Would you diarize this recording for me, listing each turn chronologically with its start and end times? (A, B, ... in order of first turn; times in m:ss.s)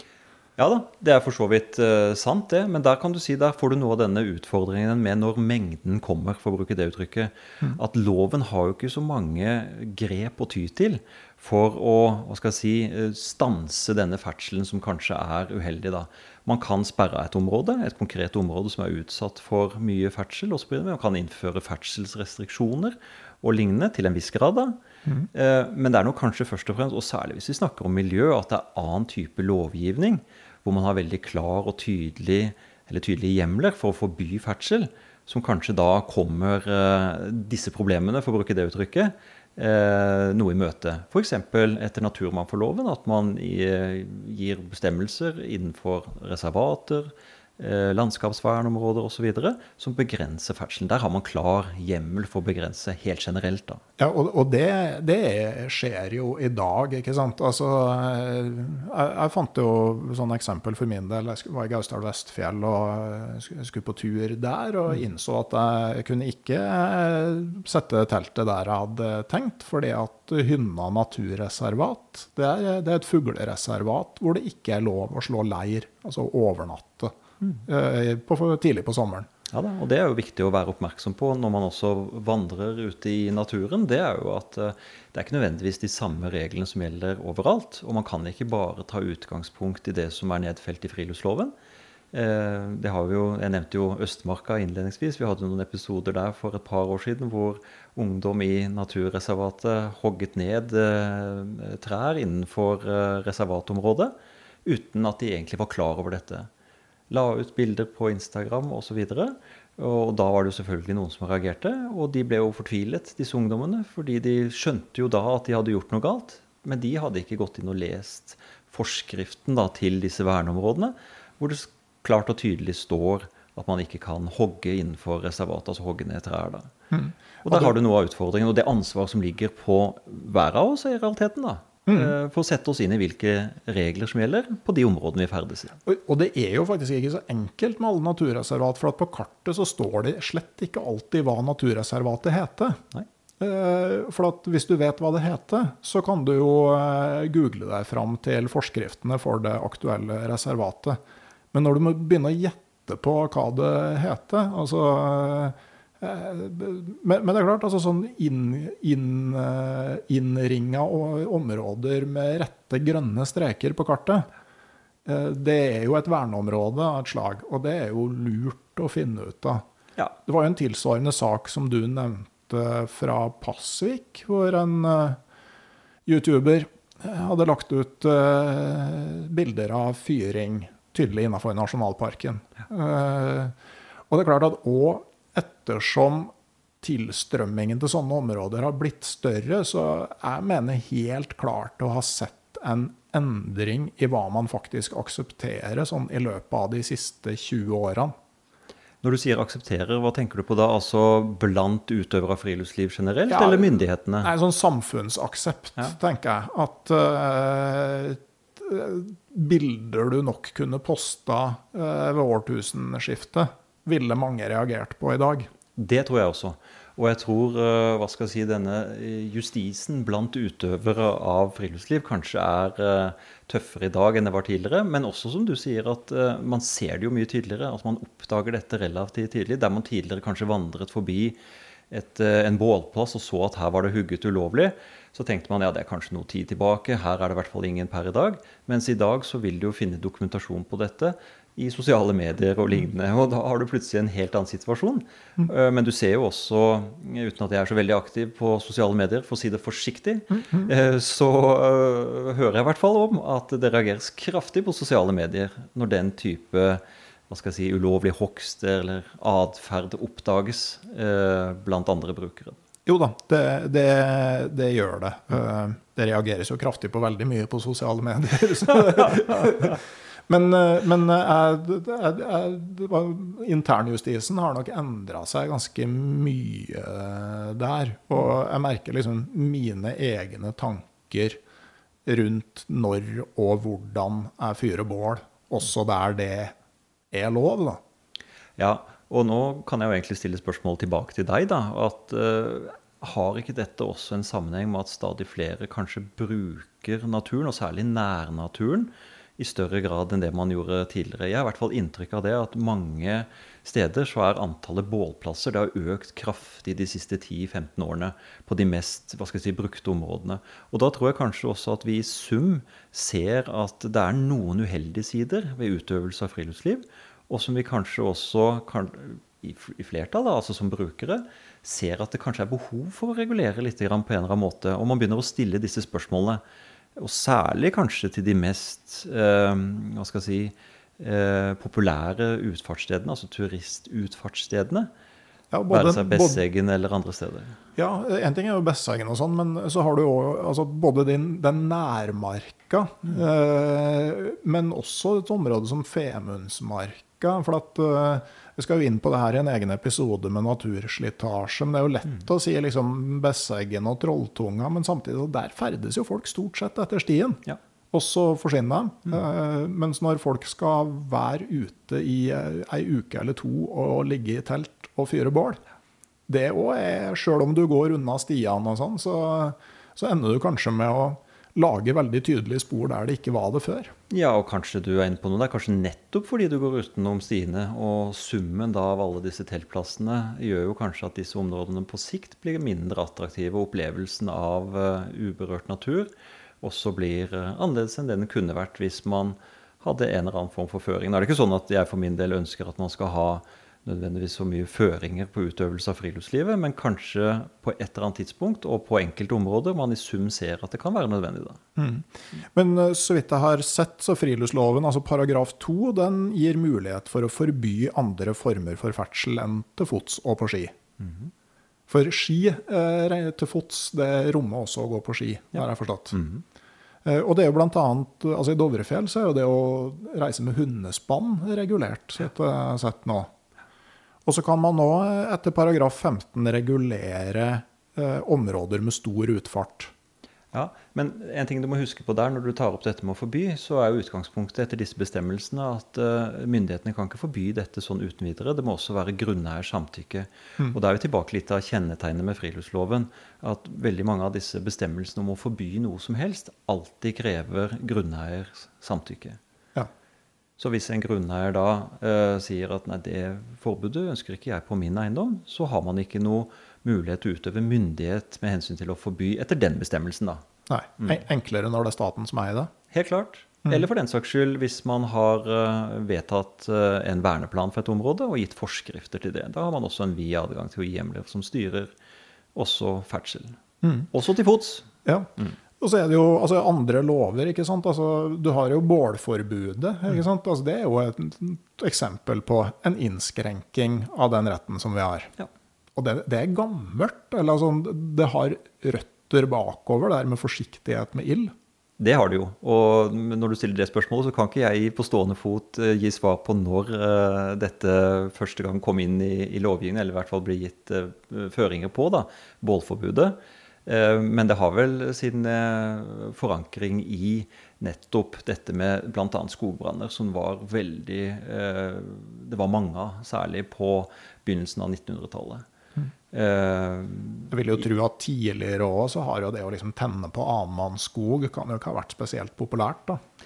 0:00.6-0:24.8 A
0:25.3-0:53.8 A
0:54.0-1:17.1 B
1:17.7-1:19.3 B
1:19.5-1:31.5 A
1:32.1-1:44.1 A
1:44.6-1:46.5 A
1:47.1-2:06.7 A
2:06.9-2:07.7 B
2:07.4-2:15.8 A
2:11.9-2:12.1 B
2:15.8-2:22.8 B
2:23.4-2:31.0 B
2:31.5-2:44.3 B
2:45.0-2:49.6 B
2:50.2-2:55.2 B
2:56.0-3:03.5 B
3:04.1-3:18.1 B
3:19.0-3:24.3 A
3:23.3-3:35.5 B
3:35.8-3:51.4 A
3:51.9-4:22.6 A
4:10.3-4:10.7 B
4:22.8-4:41.4 B
4:42.0-4:46.5 B
4:47.1-4:47.8 B
4:48.6-5:26.4 A
5:27.0-5:34.9 A
5:35.5-5:36.4 B
5:35.7-5:37.6 A
5:37.8-5:57.4 B
5:57.9-6:05.6 B
6:06.3-6:13.9 B
6:14.1-6:26.1 A
6:26.6-6:41.6 A
6:41.8-6:50.8 B
6:51.0-6:51.3 A
6:51.9-6:56.2 B
6:55.5-6:56.4 A
6:57.0-7:03.3 B
7:04.2-7:09.9 B
7:10.5-7:29.4 A
7:30.6-7:40.4 A
7:40.7-7:42.7 B
7:42.9-7:51.9 A
7:52.5-7:53.6 A
7:53.8-7:54.1 B
7:54.1-7:54.9 A
7:55.0-8:05.3 B
8:06.0-8:11.5 B
8:12.0-8:35.6 A
8:36.3-8:37.6 A
8:37.5-8:43.2 B